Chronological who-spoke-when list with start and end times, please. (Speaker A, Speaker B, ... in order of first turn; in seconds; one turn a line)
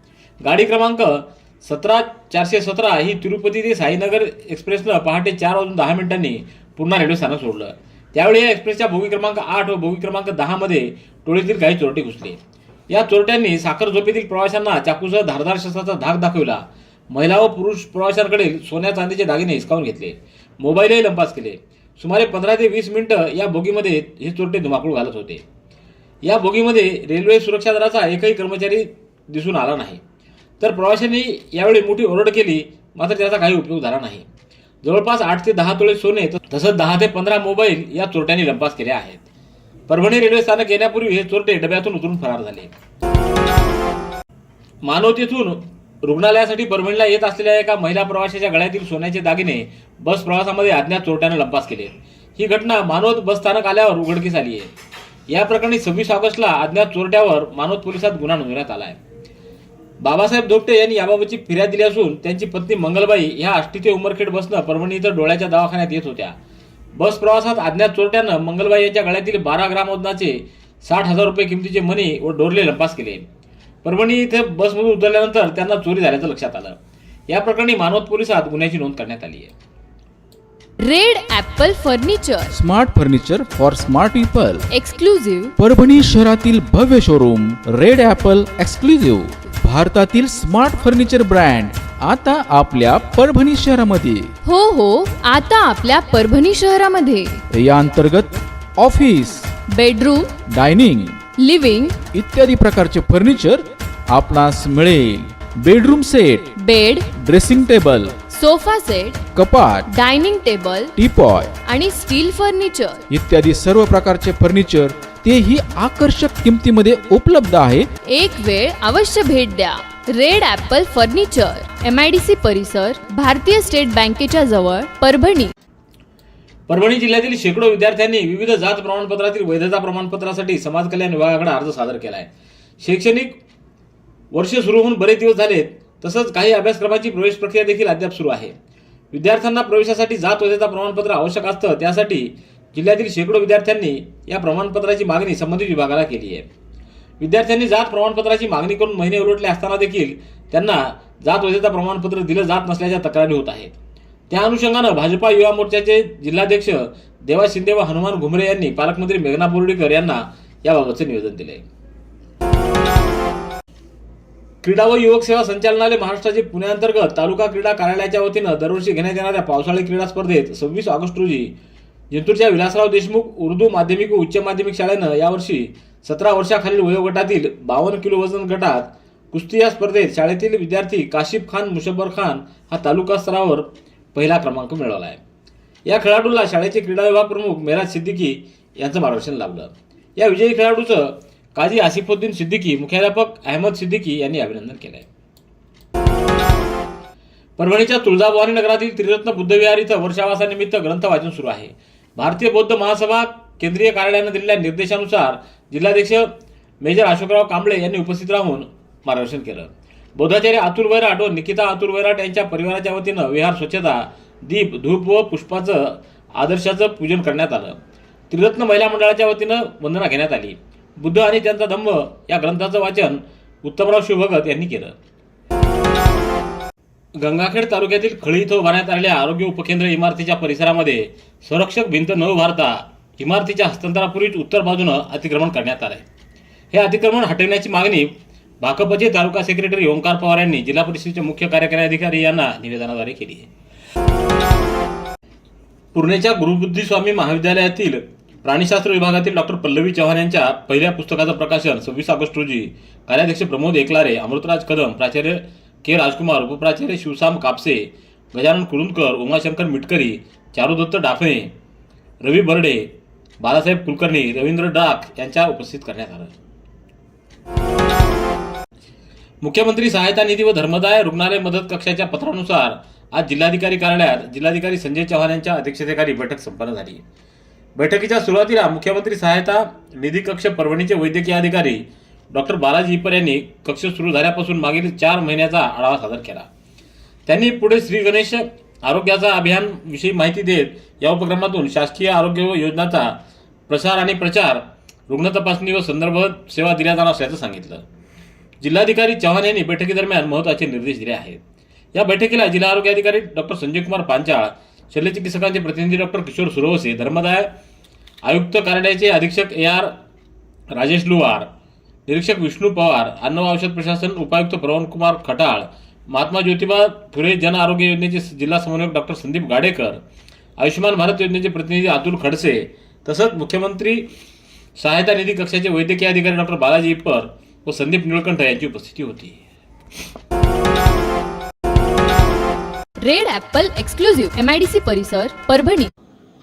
Speaker A: 0.4-12.4
Speaker A: 12.9-25.4
Speaker A: 26.2-30.0
Speaker A: 30.6-34.3
Speaker A: 34.8-39.2
Speaker A: 39.9-42.7
Speaker A: 44.8-54.7
Speaker A: 55.3-59.0
Speaker A: 60.0-66.3
Speaker A: 66.9-73.3
Speaker A: 73.8-76.8
Speaker A: 77.3-79.5
Speaker B: 80.8-82.5
Speaker C: 82.5-84.6
Speaker B: 84.7-85.5
Speaker C: 85.6-94.3
Speaker B: 94.4-97.4
Speaker C: 97.5-99.5
Speaker B: 99.7-100.4
Speaker C: 100.5-101.2
Speaker B: 101.4-102.0
Speaker C: 102.1-106.5
Speaker B: 106.6-107.1
Speaker C: 107.2-108.1
Speaker B: 108.2-109.2
Speaker C: 109.3-109.9
Speaker B: 109.9-110.9
Speaker C: 111.0-111.5
Speaker B: 111.6-113.0
Speaker C: 113.1-117.9
Speaker B: 118.1-125.5
Speaker A: 126.7-132.3
Speaker A: 132.8-133.4
Speaker A: 134.3-138.5
Speaker A: 139.1-146.5
Speaker A: 147.2-153.7
Speaker A: 154.3-161.6
Speaker A: 164.6-171.5
Speaker A: 172.1-185.2
Speaker A: 185.8-195.1
Speaker A: 197.6-217.8
Speaker A: 218.3-224.9
Speaker A: 227.2-236.0
Speaker A: 236.7-243.5
Speaker A: 245.9-261.5
Speaker A: 262.2-266.3
Speaker A: 269.4-277.0
Speaker A: 277.8-286.5
Speaker A: 287.2-297.8
Speaker A: 298.6-301.4
Speaker A: 301.9-307.5
Speaker A: 308.2-309.9
Speaker A: 310.7-311.5
Speaker A: 312.1-320.0
Speaker A: 320.6-324.1
Speaker A: 324.8-329.4
Speaker B: 333.0-335.9